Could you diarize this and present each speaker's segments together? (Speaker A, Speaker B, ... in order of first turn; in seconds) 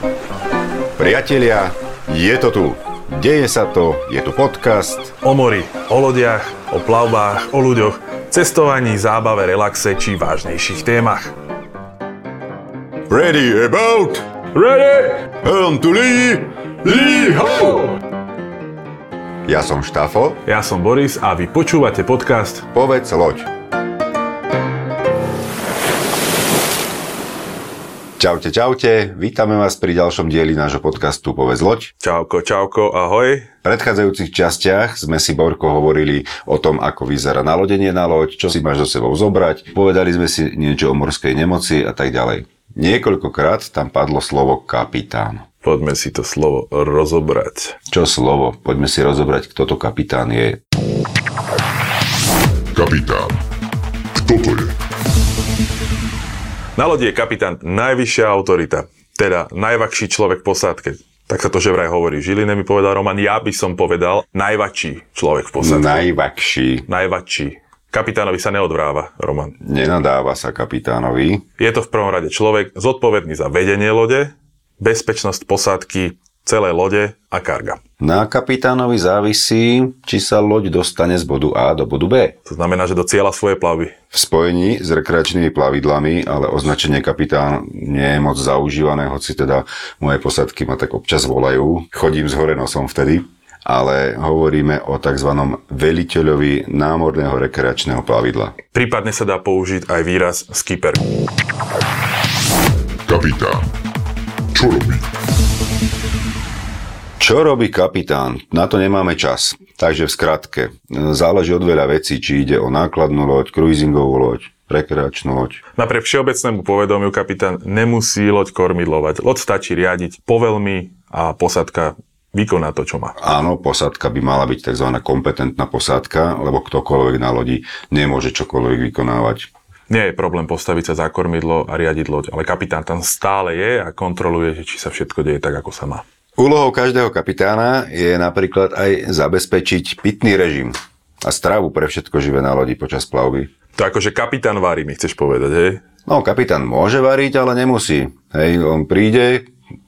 Speaker A: 1.0-5.1, 13.1-14.2, 15.2-17.8, 19.4-20.4, 22.7-23.5, 28.2-31.9, 33.6-45.4, 47.9-50.6, 65.6-66.8, 69.6-71.4, 78.0-82.3, 84.1-98.5, 107.2-115.6, 123.2-129.5, 136.4-143.5, 146.1-149.5
Speaker B: 5.2-11.3, 14.6-15.2, 20.4-22.6, 32.0-33.5, 45.6-47.8, 56.8-66.0, 66.9-69.5, 71.6-77.8, 82.4-83.9, 98.7-101.0, 115.8-123.2, 129.9-136.0, 143.8-145.8
Speaker C: 52.7-53.4, 54.1-54.8, 103.1-103.7, 104.5-105.1